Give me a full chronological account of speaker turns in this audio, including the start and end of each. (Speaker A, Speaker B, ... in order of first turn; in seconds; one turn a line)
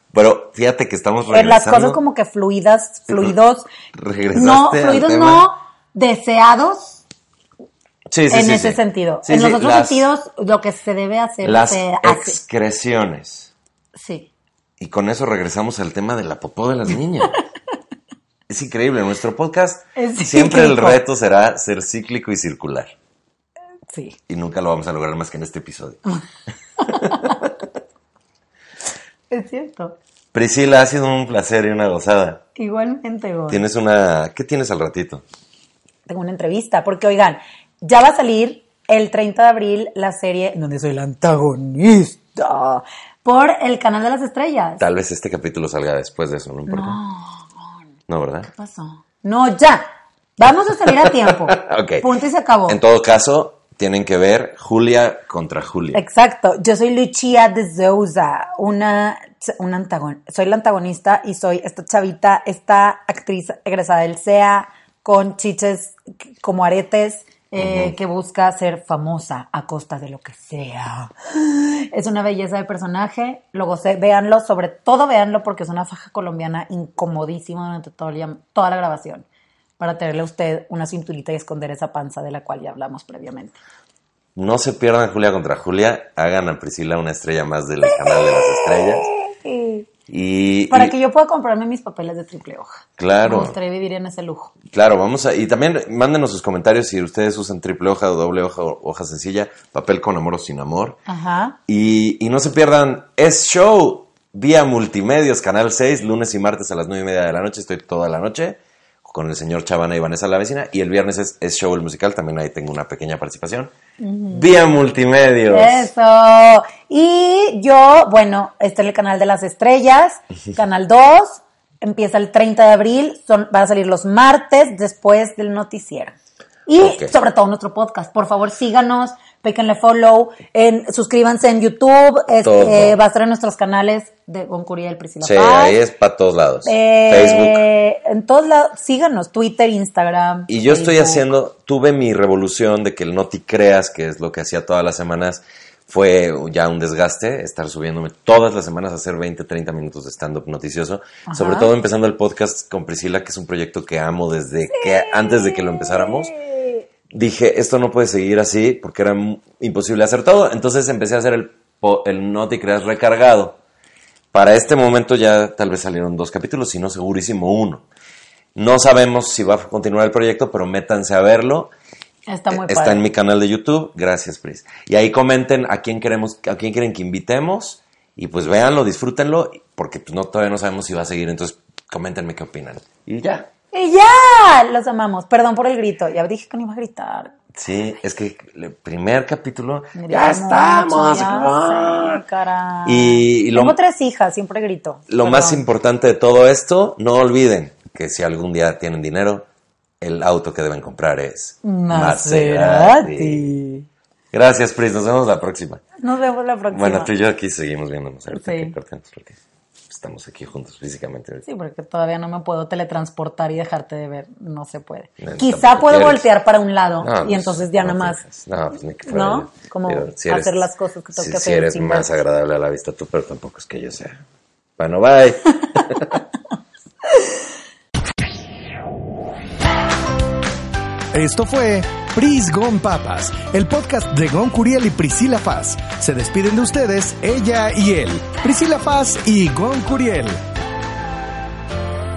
Speaker A: 0.1-2.0
Speaker B: 1.3-3.7
Speaker A: 4.0-5.5
Speaker B: 4.3-7.0
Speaker A: 8.1-10.0
Speaker B: 8.3-12.4
Speaker A: 11.4-13.5
Speaker B: 13.9-14.3
Speaker A: 14.8-17.3
Speaker A: 18.5-22.9
Speaker B: 20.0-21.0
Speaker B: 23.9-24.2
Speaker A: 24.3-26.0
Speaker B: 26.8-27.4
Speaker A: 26.9-27.3
Speaker B: 29.3-30.0
Speaker A: 30.3-32.4
Speaker B: 32.5-33.6
Speaker A: 33.5-35.2
Speaker B: 36.1-44.8
Speaker A: 44.8-47.0
Speaker B: 46.7-47.8
Speaker A: 48.1-48.5
Speaker B: 48.4-49.9
Speaker B: 50.4-52.8
Speaker A: 51.0-52.1
Speaker A: 52.7-56.0
Speaker B: 55.9-79.3
Speaker A: 67.6-67.9
Speaker B: 79.8-83.6
Speaker A: 84.4-89.1
Speaker B: 87.8-89.9
Speaker A: 90.1-90.9
Speaker B: 90.7-94.5
Speaker A: 93.0-93.6
Speaker A: 94.7-101.0
Speaker B: 101.1-101.6
Speaker A: 101.7-113.7
Speaker B: 114.0-114.5
Speaker A: 114.3-115.9
Speaker B: 115.5-126.1
Speaker B: 126.7-135.8
Speaker A: 126.8-127.1
Speaker A: 132.4-133.0
Speaker A: 135.2-137.6
Speaker B: 136.7-141.2
Speaker A: 140.5-156.3
Speaker B: 151.3-151.7
Speaker B: 154.7-156.8
Speaker A: 157.1-163.6
Speaker A: 164.3-167.8
Speaker A: 168.6-171.7
Speaker B: 172.3-173.1
Speaker A: 172.5-183.5
Speaker B: 183.7-187.3
Speaker A: 187.5-192.2
Speaker B: 190.0-195.6
Speaker A: 192.8-193.8
Speaker A: 195.1-199.5
Speaker A: 200.0-203.5
Speaker B: 201.6-203.9
Speaker A: 204.3-205.8
Speaker B: 206.0-207.1
Speaker A: 206.7-209.4
Speaker B: 208.3-208.8
Speaker A: 209.9-211.4
Speaker B: 211.4-218.2
Speaker A: 215.2-216.3
Speaker A: 217.0-224.2
Speaker B: 219.1-222.1
Speaker A: 224.8-226.2
Speaker C: 231.1-240.4